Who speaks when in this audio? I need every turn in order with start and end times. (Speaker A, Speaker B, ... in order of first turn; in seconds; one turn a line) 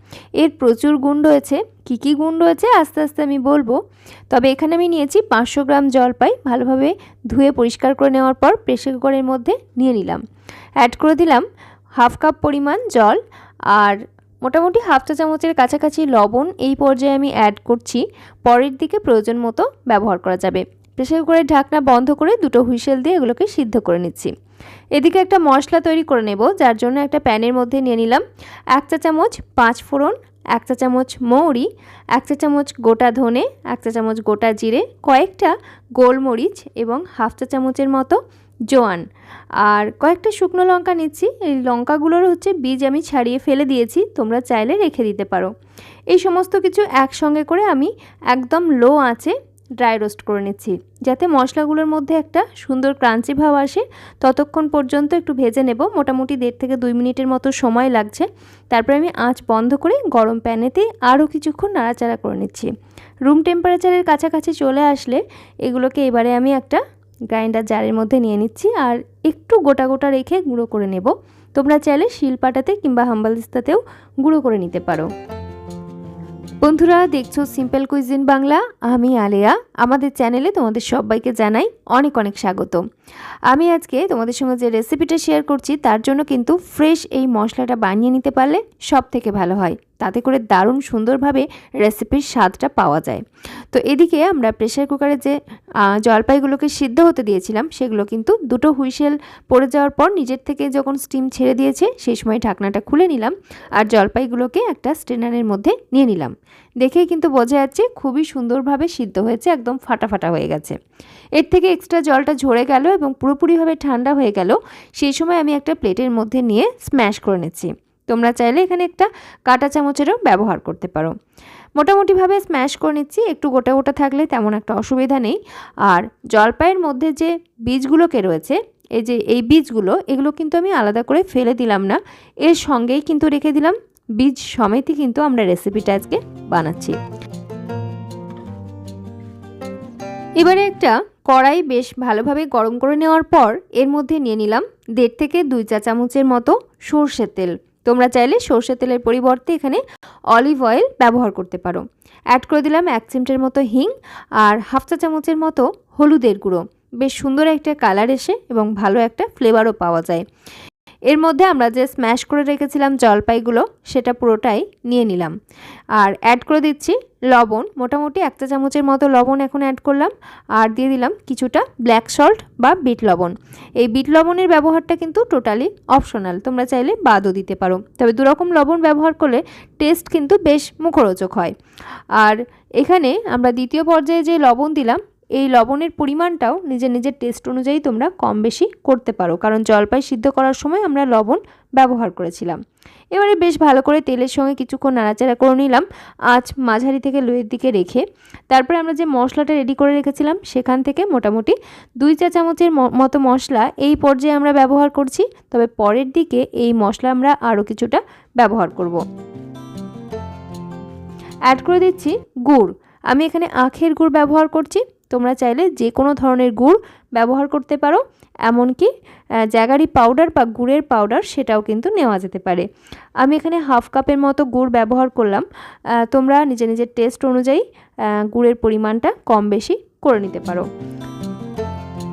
Speaker A: 0.4-3.8
Speaker A: 4.3-10.2
Speaker A: 10.8-11.4
Speaker A: 12.0-24.3
Speaker A: 24.9-39.1
Speaker A: 39.6-45.5
Speaker A: 46.1-62.7
Speaker A: 63.2-75.1
Speaker A: 76.6-82.8
Speaker A: 83.5-110.8
Speaker A: 111.3-121.1
Speaker A: 121.8-137.0
Speaker A: 140.4-160.2
Speaker A: 161.1-165.3
Speaker A: 165.9-181.5
Speaker A: 182.2-192.6
Speaker A: 193.1-209.0
Speaker A: 211.5-218.9
Speaker A: 219.5-222.7
Speaker A: 223.2-230.7